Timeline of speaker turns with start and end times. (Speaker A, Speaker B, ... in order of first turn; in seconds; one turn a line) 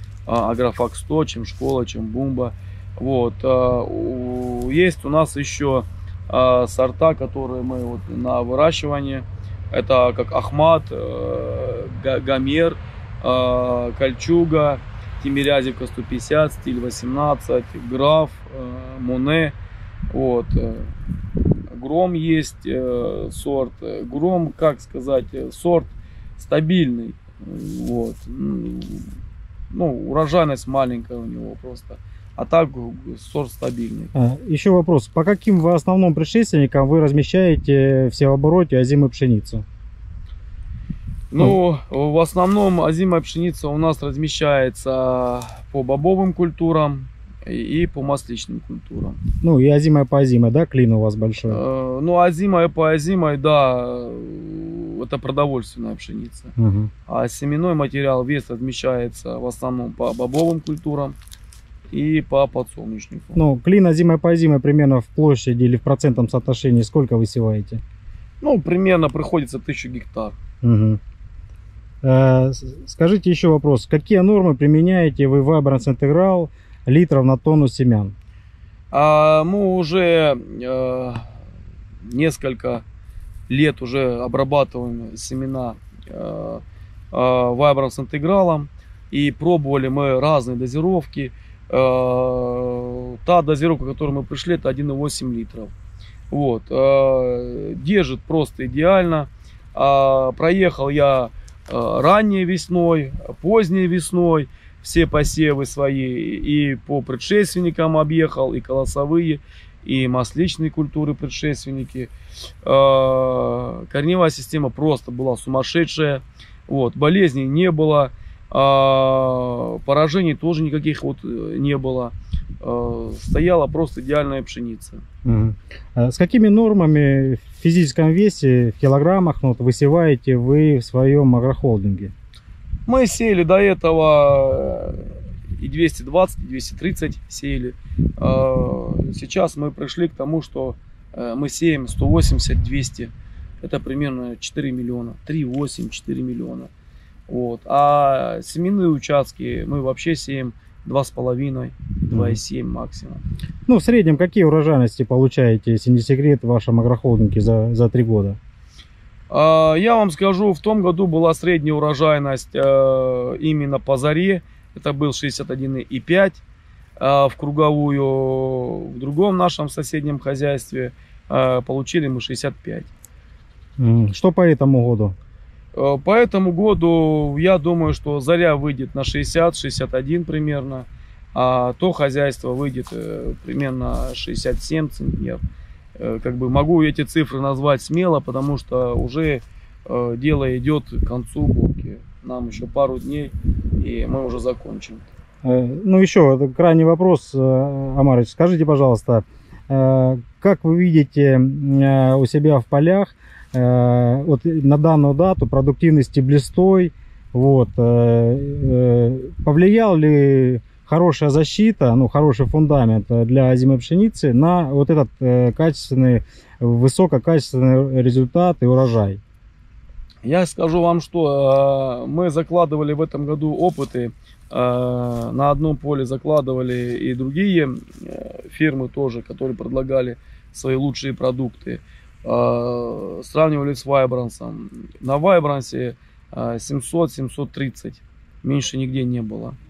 Speaker A: 0.3-19.6
Speaker A: 20.1-20.9
Speaker A: 21.7-29.1
Speaker A: 29.7-34.1
Speaker B: 34.1-39.6
Speaker A: 41.3-49.2
Speaker B: 49.4-51.6
Speaker A: 51.5-56.5
Speaker B: 56.6-56.9
Speaker A: 57.1-61.2
Speaker A: 61.9-63.4
Speaker B: 63.4-67.8
Speaker A: 68.4-70.4
Speaker B: 70.6-71.0
Speaker B: 72.0-78.1
Speaker A: 78.9-81.3
Speaker A: 82.0-82.8
Speaker A: 83.5-95.7
Speaker A: 96.3-112.1
Speaker A: 112.6-125.0
Speaker B: 125.2-132.1
Speaker A: 132.9-146.7
Speaker A: 147.3-153.2
Speaker B: 152.1-152.4
Speaker B: 153.7-158.4
Speaker A: 159.3-166.4
Speaker A: 167.0-172.9
Speaker B: 173.8-175.1
Speaker A: 175.7-185.4
Speaker A: 186.0-195.1
Speaker B: 195.4-219.2
Speaker A: 220.2-239.6